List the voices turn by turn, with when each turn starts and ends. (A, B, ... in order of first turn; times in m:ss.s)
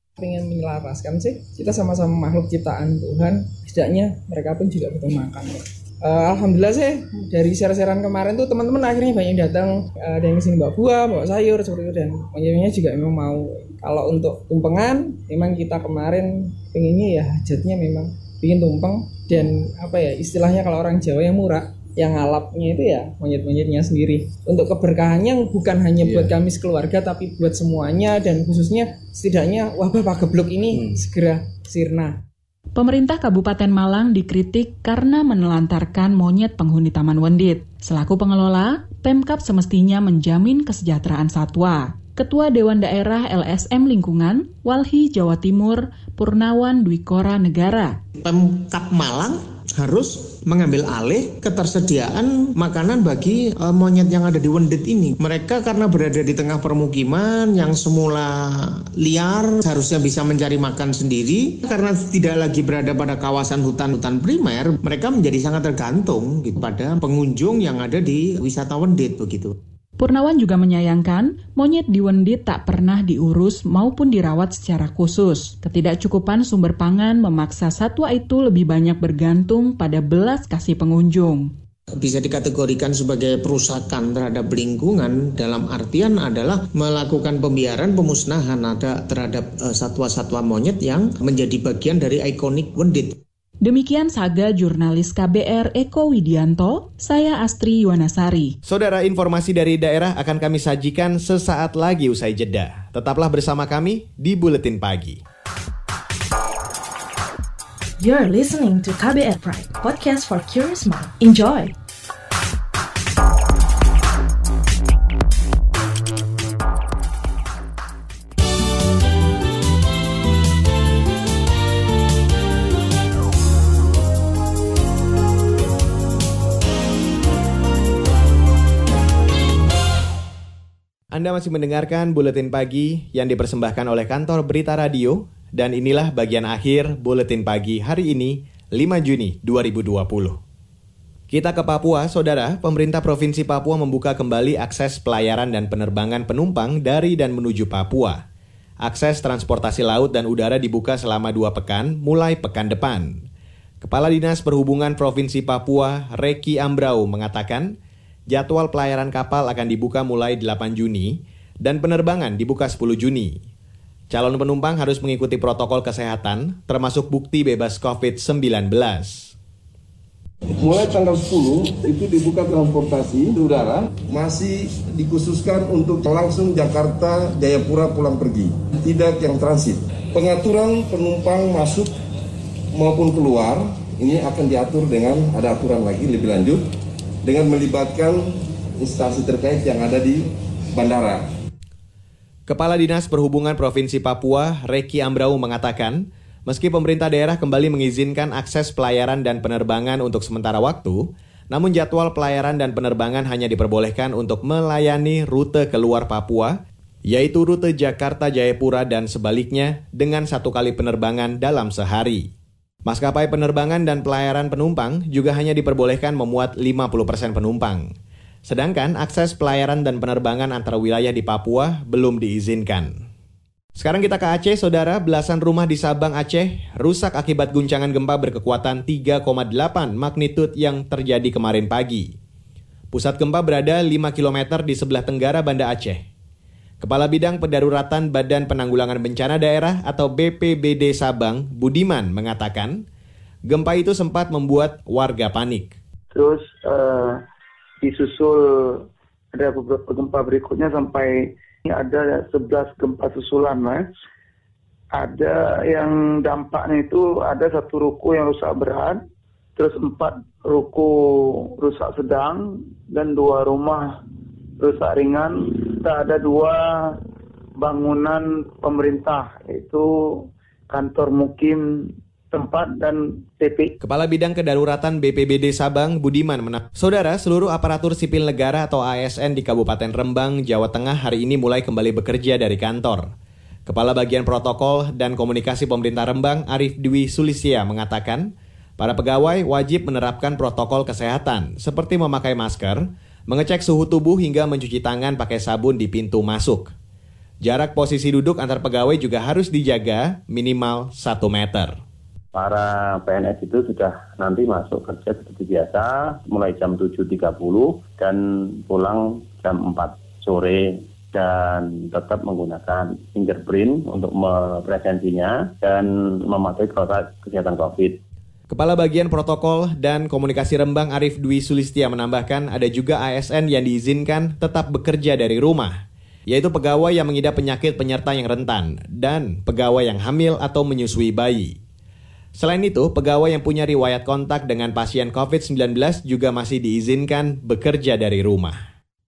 0:00.2-0:32.2 A
0:32.8-0:48.0 B
0:48.2-1:09.6 C
1:10.0-1:21.5 B
1:22.0-1:33.2 C
1:33.6-1:38.6 B
1:38.6-1:45.2 D
1:48.0-1:51.8 E
2:11.1-2:20.4 D
2:21.3-2:28.2 D
2:28.8-2:33.2 D
2:33.8-2:37.8 D
2:38.3-2:43.4 D
2:44.1-2:49.3 D
2:50.6-3:01.9 F
3:02.7-3:06.6 F
3:07.2-3:11.2 F
3:12.5-3:32.3 D
3:32.8-3:37.9 D
3:38.5-3:43.0 D
3:43.8-3:52.1 D
3:52.9-3:56.0 D
3:56.8-4:02.8 D
4:03.5-4:05.8 D
4:06.1-4:07.2 G
4:07.8-4:13.9 G
4:15.0-4:19.0 G
4:19.6-4:20.9 G
4:21.6-4:23.9 G
4:24.6-4:26.9 G
4:27.6-4:29.9 G
4:30.7-4:31.6 G
4:32.3-4:33.7 G
4:33.8-4:43.1 D
4:43.7-4:56.7 D
4:57.4-5:01.7 D
5:02.3-5:18.0 H
5:18.5-5:31.6 D
5:32.4-5:38.6 D